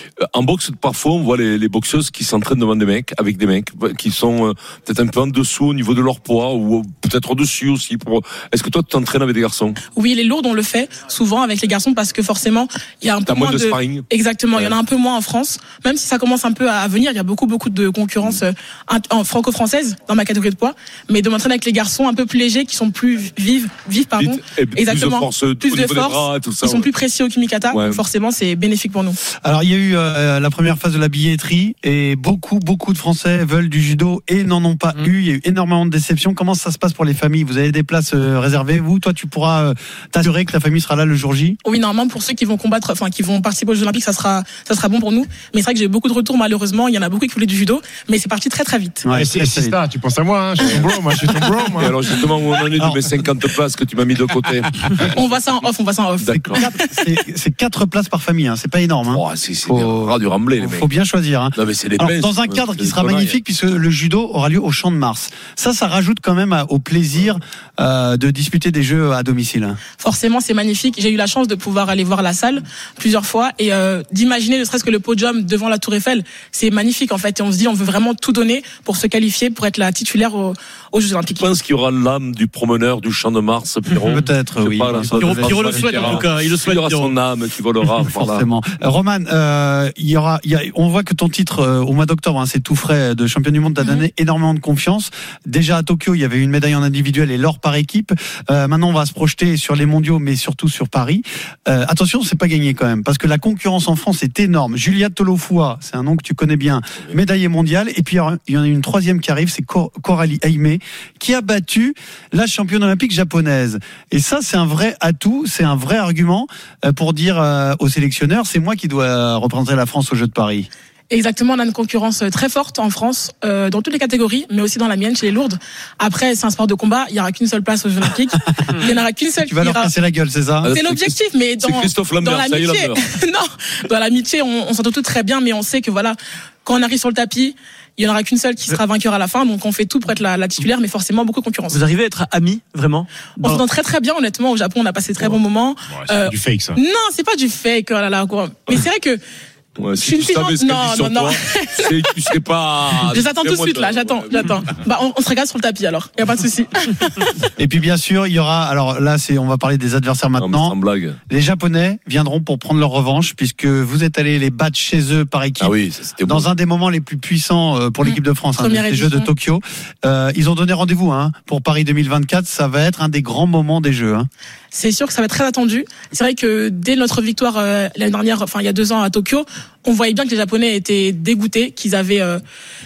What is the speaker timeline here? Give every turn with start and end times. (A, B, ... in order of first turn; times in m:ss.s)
0:00.3-0:09.8 A
0:09.9-0:29.2 B
0:13.2-0:14.8 A
0:24.2-0:26.9 A
0:27.7-0:28.0 A
0:29.4-0:41.6 C
0:41.6-0:49.0 B
0:49.0-0:49.8 C
0:49.1-0:52.0 D
0:51.8-0:55.0 A
0:52.8-0:53.2 C
0:55.1-0:56.8 B
0:56.2-0:56.6 A
0:56.6-1:09.8 C
0:59.1-1:00.9 A
1:01.5-1:03.4 A
1:10.0-1:21.5 B
1:21.3-1:28.4 A
1:24.0-1:26.2 C
1:25.1-1:27.1 E
1:28.0-2:00.7 C
2:01.1-2:09.9 B
2:09.4-2:10.7 C
2:10.6-2:13.0 A
2:10.6-2:21.8 B
2:21.7-2:23.6 E
2:23.4-2:29.2 B
2:25.9-2:26.8 D
2:29.8-2:34.6 A
2:30.0-2:32.0 B
2:33.0-2:37.3 B
2:37.6-2:40.7 C
2:40.4-2:41.2 A
2:41.3-2:54.3 C
2:45.6-2:46.5 A
2:48.0-2:49.3 B
2:54.7-3:02.4 B